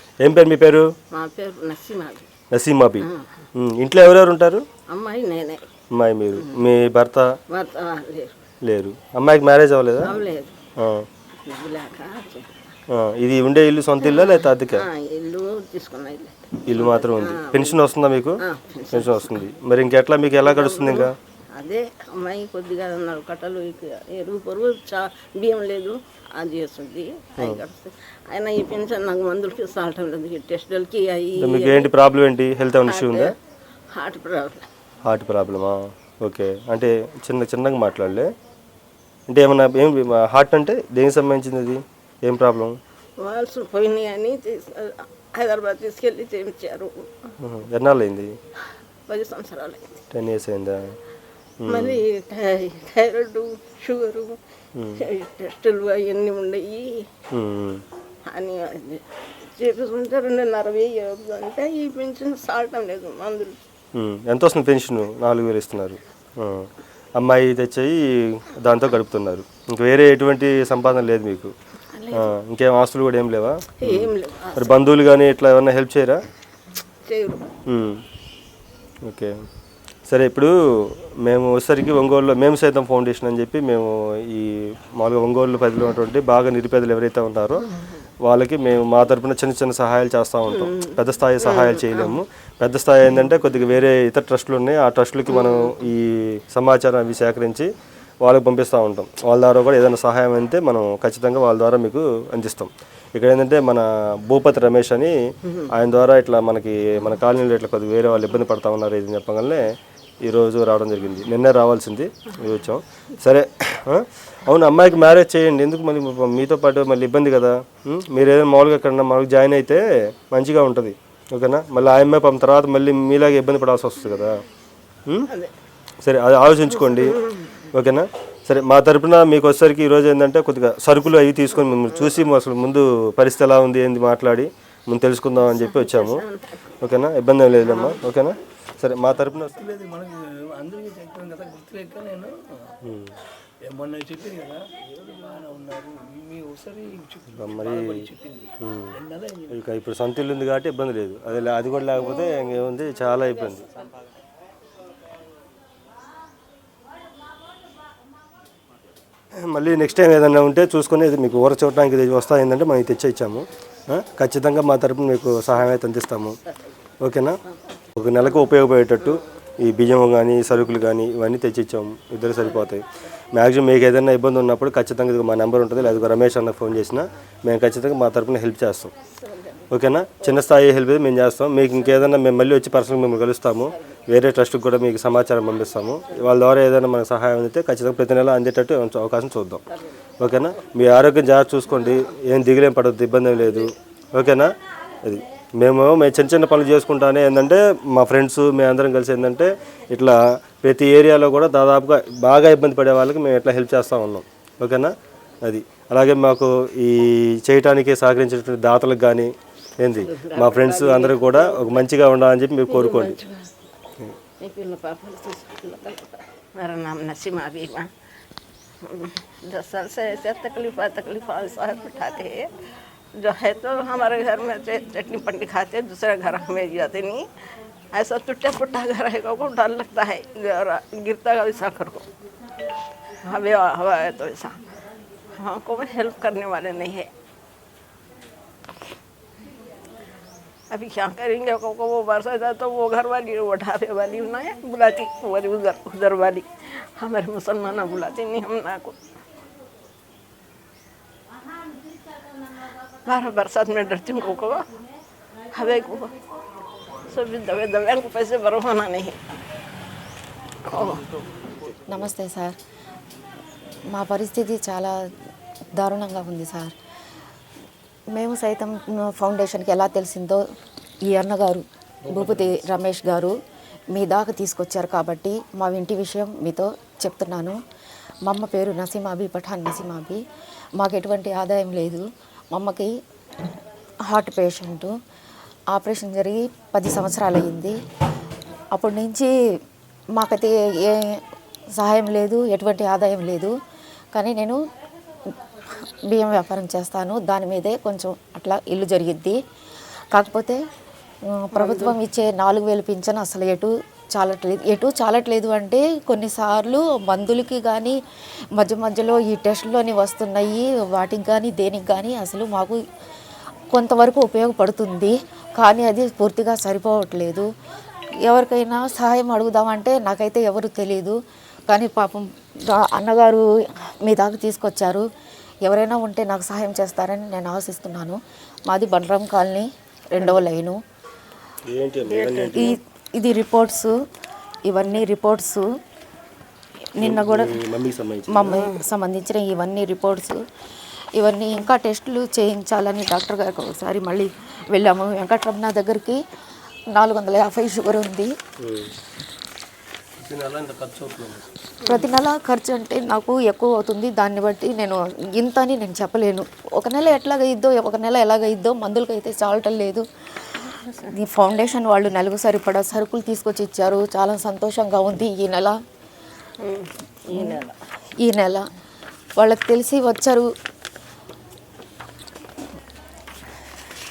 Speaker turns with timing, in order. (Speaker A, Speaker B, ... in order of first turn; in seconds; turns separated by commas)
Speaker A: 0.2-0.9, Speaker B: 1.1-2.3, Speaker A: 2.5-4.6, Speaker B: 3.0-3.5, Speaker B: 4.9-5.7, Speaker A: 5.9-7.3, Speaker B: 6.4-6.6, Speaker B: 7.5-8.4, Speaker A: 8.6-10.1, Speaker B: 10.0-10.6, Speaker A: 10.8-11.1, Speaker B: 11.4-12.7, Speaker A: 12.9-14.9, Speaker B: 14.0-17.8, Speaker A: 16.7-18.4, Speaker B: 18.4-19.4, Speaker A: 18.9-21.1, Speaker B: 20.4-31.9, Speaker A: 31.4-33.3, Speaker B: 32.9-33.4, Speaker B: 33.9-34.7, Speaker A: 35.0-38.3, Speaker A: 39.3-42.8, Speaker B: 43.2-47.3, Speaker A: 47.4-48.4, Speaker B: 49.1-49.9, Speaker A: 50.1-51.0, Speaker A: 51.6-52.0, Speaker B: 51.7-54.4, Speaker A: 54.8-55.0, Speaker B: 55.0-57.1, Speaker A: 57.3-57.8, Speaker B: 58.3-63.6, Speaker A: 64.0-71.5, Speaker B: 71.9-72.4, Speaker A: 72.1-76.2, Speaker B: 73.8-74.8, Speaker B: 77.0-77.5, Speaker A: 77.7-78.0, Speaker A: 79.1-79.3, Speaker A: 80.1-87.7, Speaker A: 88.2-97.7, Speaker B: 90.5-92.2, Speaker B: 95.3-95.8, Speaker A: 98.2-105.2, Speaker A: 105.7-109.7, Speaker A: 110.2-124.4, Speaker A: 126.0-127.2, Speaker B: 126.8-127.7, Speaker A: 127.7-136.2, Speaker B: 135.5-136.6, Speaker A: 136.8-139.6, Speaker B: 137.7-138.0, Speaker C: 139.5-142.8, Speaker A: 142.8-143.2, Speaker C: 143.6-149.6, Speaker A: 147.4-148.1, Speaker A: 148.6-148.9, Speaker A: 149.5-153.7, Speaker A: 159.3-166.4, Speaker B: 166.4-166.7, Speaker A: 167.0-167.4, Speaker B: 167.5-167.8, Speaker A: 168.0-178.9, Speaker B: 169.0-169.3, Speaker B: 179.2-180.4, Speaker A: 179.7-189.6, Speaker A: 190.2-194.5, Speaker A: 195.0-204.9, Speaker A: 205.5-213.2, Speaker B: 210.0-211.8, Speaker B: 212.7-213.5, Speaker B: 214.4-217.9, Speaker B: 218.8-222.5, Speaker B: 223.2-227.3, Speaker B: 227.9-232.1, Speaker B: 233.2-234.6, Speaker B: 235.4-237.1, Speaker B: 240.7-249.0, Speaker B: 253.1-254.7, Speaker B: 255.5-256.1, Speaker B: 257.1-259.2, Speaker B: 260.7-261.1, Speaker D: 261.9-262.6, Speaker D: 263.9-265.0, Speaker D: 265.8-266.7, Speaker D: 268.1-270.4, Speaker D: 271.1-273.3, Speaker C: 272.1-272.6, Speaker D: 273.9-277.6, Speaker D: 278.3-280.2, Speaker D: 280.8-282.9, Speaker D: 284.1-284.9, Speaker D: 285.7-287.8, Speaker D: 288.8-289.3, Speaker D: 290.2-291.2, Speaker D: 291.8-293.5, Speaker D: 294.1-294.6, Speaker D: 296.1-299.4, Speaker D: 300.1-300.6, Speaker D: 301.3-308.0, Speaker B: 301.5-302.0, Speaker D: 308.6-312.8, Speaker D: 313.7-317.5, Speaker D: 318.3-321.2, Speaker D: 321.7-323.4, Speaker D: 324.0-325.1, Speaker D: 325.6-330.8, Speaker A: 331.7-332.7, Speaker B: 332.1-332.8, Speaker D: 332.5-333.9, Speaker D: 334.7-335.6, Speaker D: 337.0-337.6, Speaker A: 337.0-338.6, Speaker D: 338.3-340.4, Speaker B: 338.5-338.8, Speaker D: 341.1-346.2, Speaker D: 346.9-348.3, Speaker A: 348.6-348.9, Speaker A: 350.2-351.4, Speaker C: 350.4-350.7, Speaker B: 351.9-352.1, Speaker D: 351.9-365.8, Speaker B: 360.6-361.1, Speaker B: 366.6-367.8, Speaker D: 367.3-367.6, Speaker D: 368.2-368.6, Speaker D: 369.4-370.5